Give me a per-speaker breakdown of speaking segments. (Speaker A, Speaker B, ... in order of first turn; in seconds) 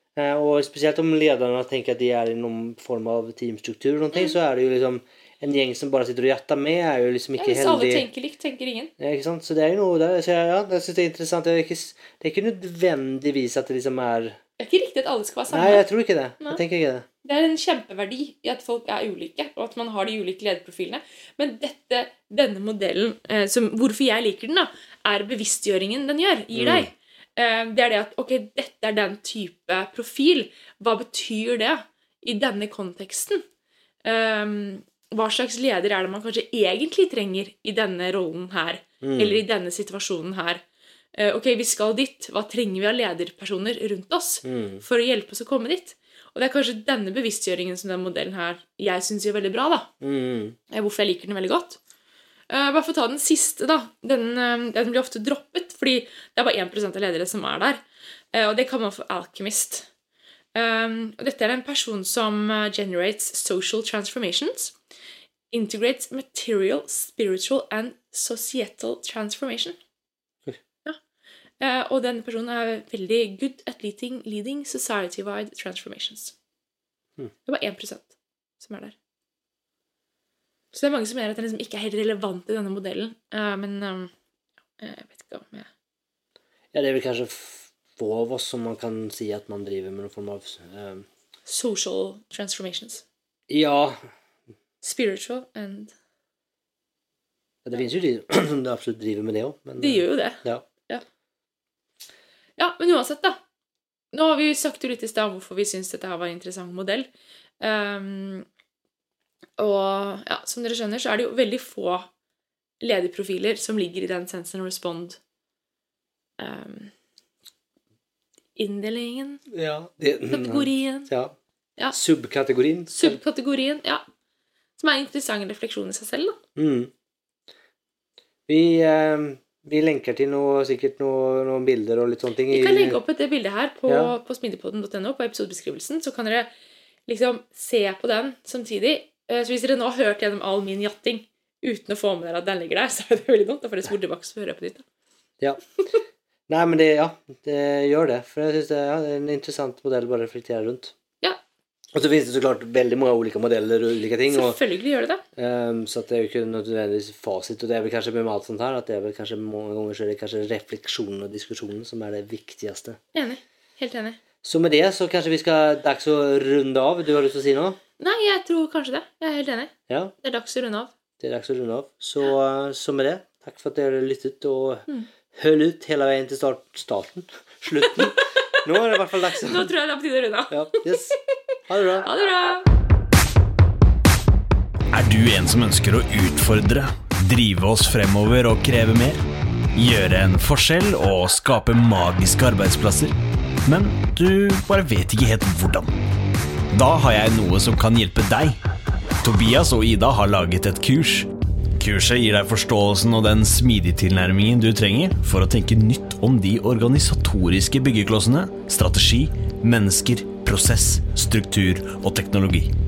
Speaker A: 0.1-8.1, 9.0-14.4, 15.5-17.1, 26.5-26.9, 39.0-39.4, 44.4-44.8, 50.0-50.6, 86.7-91.1, 93.5-94.0, 97.6-100.6, 119.5-121.3, 121.9-123.2, 126.5-126.9, 128.5-133.0, 133.9-134.1, 145.4-145.7, 146.5-150.9, 151.9-154.6, 155.3-163.0, 164.4-167.8, 169.9-170.1, 171.2-179.7, 180.5-182.1
Speaker B: 7.4-8.9, 14.6-15.9, 17.2-33.4, 34.0-40.6, 41.1-49.9, 50.7-51.8, 52.5-57.8, 58.3-59.9, 60.5-64.7, 65.5-69.8, 71.6-76.3, 77.5-78.9, 80.7-84.1, 84.8-85.7, 91.5-93.0, 94.8-95.9, 99.8-101.0, 102.6-103.4, 104.1-107.1, 107.6-108.5, 109.6-112.1, 112.8-115.2, 116.4-116.9, 118.5-119.4, 120.3-121.1, 122.9-124.0, 124.8-126.4, 132.5-136.5, 137.1-144.8, 154.3-155.2, 163.1-164.2, 168.0-170.9, 177.8-178.6, 179.3-181.1, 182.0-182.7
Speaker C: 184.9-189.2, 189.7-193.1, 193.6-195.9, 196.7-198.6, 199.2-201.3, 201.8-212.7